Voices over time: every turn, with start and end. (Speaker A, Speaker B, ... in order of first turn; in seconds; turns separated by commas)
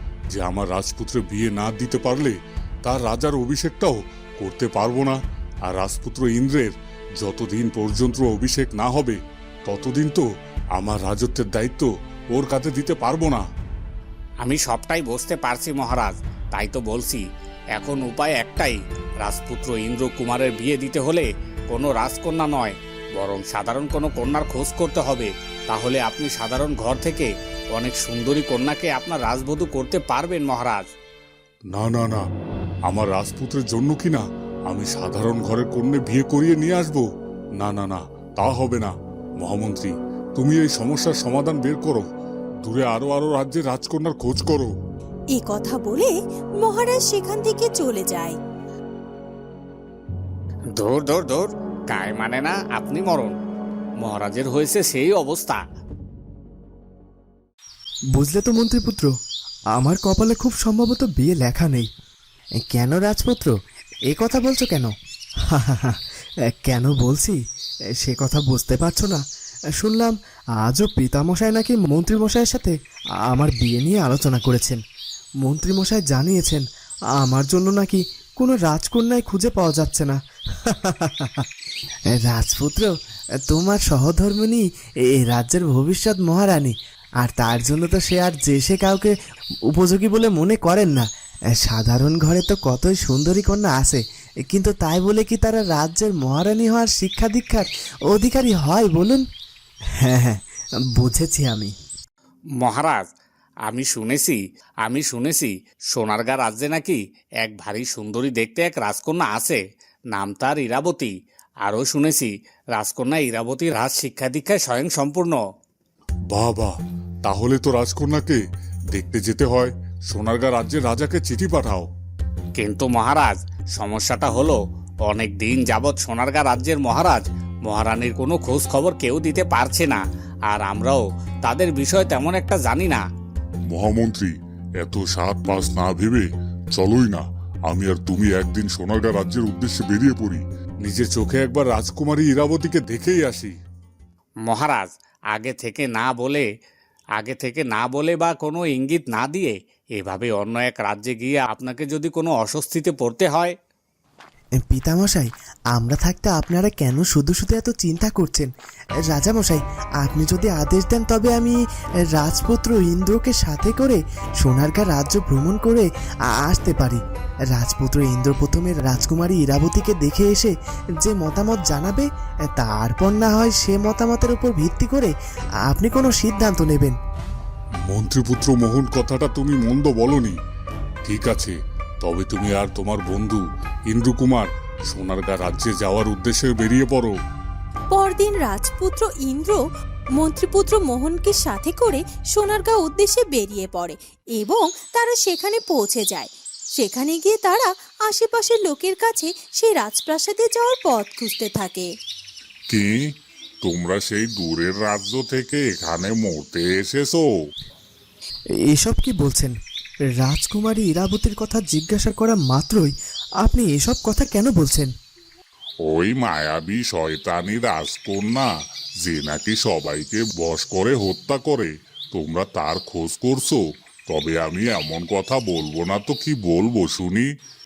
Speaker A: 0.3-13.4, Speaker B: 14.4-17.2, Speaker B: 17.8-30.9, Speaker A: 31.7-32.2, Speaker A: 32.9-37.1, Speaker A: 37.6-42.1, Speaker A: 42.6-44.7, Speaker C: 45.4-48.4, Speaker B: 50.8-53.3, Speaker B: 54.0-55.6, Speaker D: 58.1-59.1, Speaker D: 59.8-61.9, Speaker D: 62.7-63.5, Speaker D: 64.1-64.9, Speaker D: 65.5-66.0, Speaker D: 66.5-67.4, Speaker D: 68.0-69.2, Speaker D: 69.8-72.7, Speaker D: 73.3-74.8, Speaker D: 75.4-76.6, Speaker D: 77.2-81.5, Speaker D: 82.1-82.9, Speaker D: 83.5-89.1, Speaker D: 89.7-99.2, Speaker D: 100.0-100.4, Speaker D: 101.0-101.7, Speaker B: 102.6-103.1, Speaker B: 103.7-109.6, Speaker B: 110.1-111.1, Speaker B: 111.7-115.4, Speaker A: 116.3-116.7, Speaker A: 117.2-118.4, Speaker A: 118.9-121.9, Speaker B: 122.6-133.0, Speaker A: 133.7-143.6, Speaker B: 144.4-146.5, Speaker B: 147.2-153.6, Speaker D: 154.6-158.5, Speaker D: 159.1-161.6, Speaker D: 162.1-165.9, Speaker D: 166.4-167.0, Speaker D: 167.5-175.1, Speaker D: 175.7-177.0, Speaker A: 177.9-180.4, Speaker A: 181.1-187.2, Speaker C: 187.9-189.6, Speaker C: 190.2-201.9, Speaker A: 202.7-203.0, Speaker A: 203.6-207.2, Speaker D: 208.7-209.5, Speaker D: 210.2-214.9, Speaker A: 215.9-218.5, Speaker A: 219.0-227.3